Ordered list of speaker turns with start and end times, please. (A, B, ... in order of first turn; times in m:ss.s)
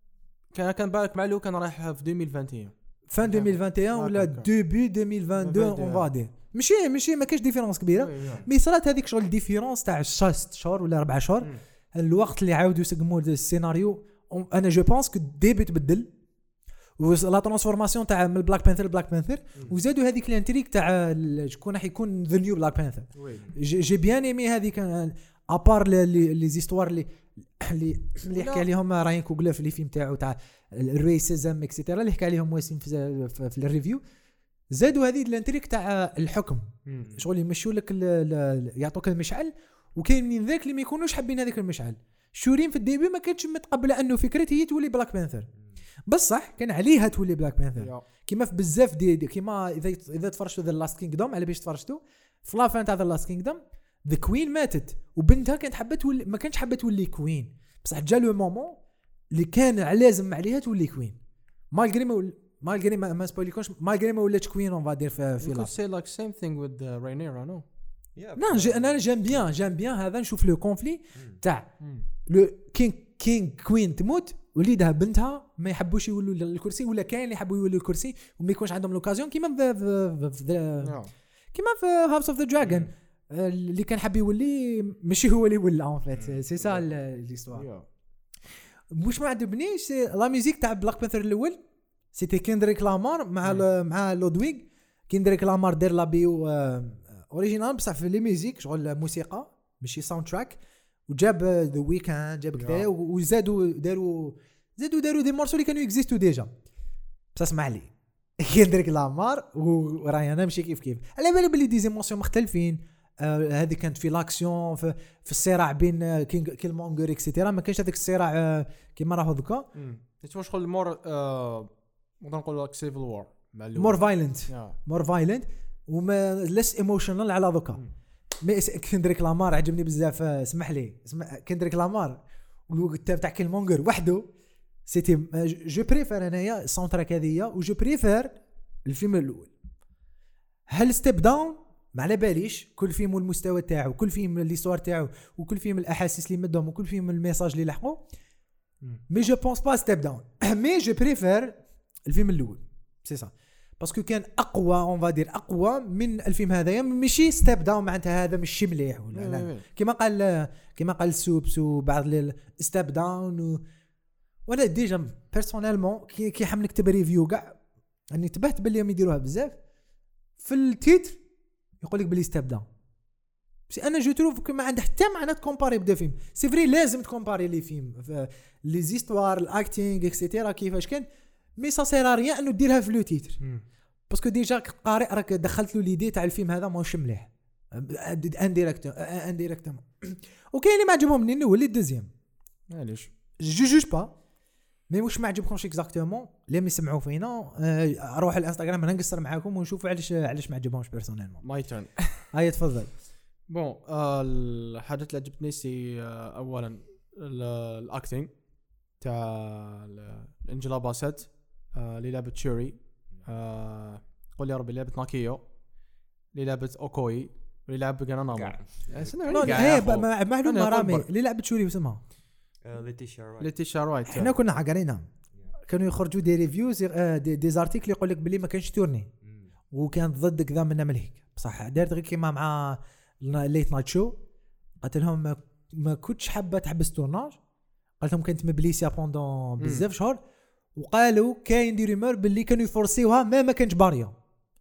0:00.5-0:04.5 A
0:03.1-0:16.1 B
0:05.4-0:06.1 A
0:08.0-0:08.4 A
0:17.0-0:34.0 B
0:23.2-0:23.5 A
0:28.3-0:28.6 A
0:34.7-0:45.5 B
0:46.1-0:58.8 B
0:47.8-0:48.0 A
0:59.3-1:01.2 B
1:01.7-1:05.7 B
1:05.4-1:07.6 A
1:08.2-1:09.0 C
1:08.4-1:11.7 B
1:11.8-1:12.0 A
1:12.2-1:21.0 B
1:20.8-1:21.1 A
1:21.5-1:27.7 B
1:22.6-1:22.9 C
1:26.1-1:26.4 C
1:27.5-1:27.8 A
1:28.9-1:31.6 B
1:32.1-1:46.5 B
1:42.5-1:42.8 A
1:47.3-1:59.7 B
1:59.7-2:04.8 A
2:03.8-2:07.8 B
2:08.4-2:14.3 B
2:14.9-2:19.5 B
2:20.7-2:28.0 B
2:29.1-2:43.6 B
2:39.1-2:39.6 A
2:44.4-2:47.6 B
2:48.1-2:49.6 B
2:50.4-2:51.2 B
2:51.8-2:52.6 B
2:53.7-3:03.4 B
3:04.1-3:12.1 B
3:12.7-3:13.1 A
3:13.4-3:14.1 B
3:14.9-3:21.4 B
3:21.4-3:22.2 A
3:22.3-3:22.9 B
3:23.5-3:28.3 A
3:29.0-3:35.4 A
3:36.3-3:41.1 A
3:38.3-3:39.6 C
3:39.3-3:42.0 B
3:42.6-3:43.5 C
3:43.4-3:44.3 A
3:44.1-3:45.1 B
3:45.6-3:49.1 B
3:49.7-3:54.2 B
3:54.8-3:57.4 B
3:58.0-4:00.2 B
3:59.6-3:59.8 A
4:00.7-4:04.1 B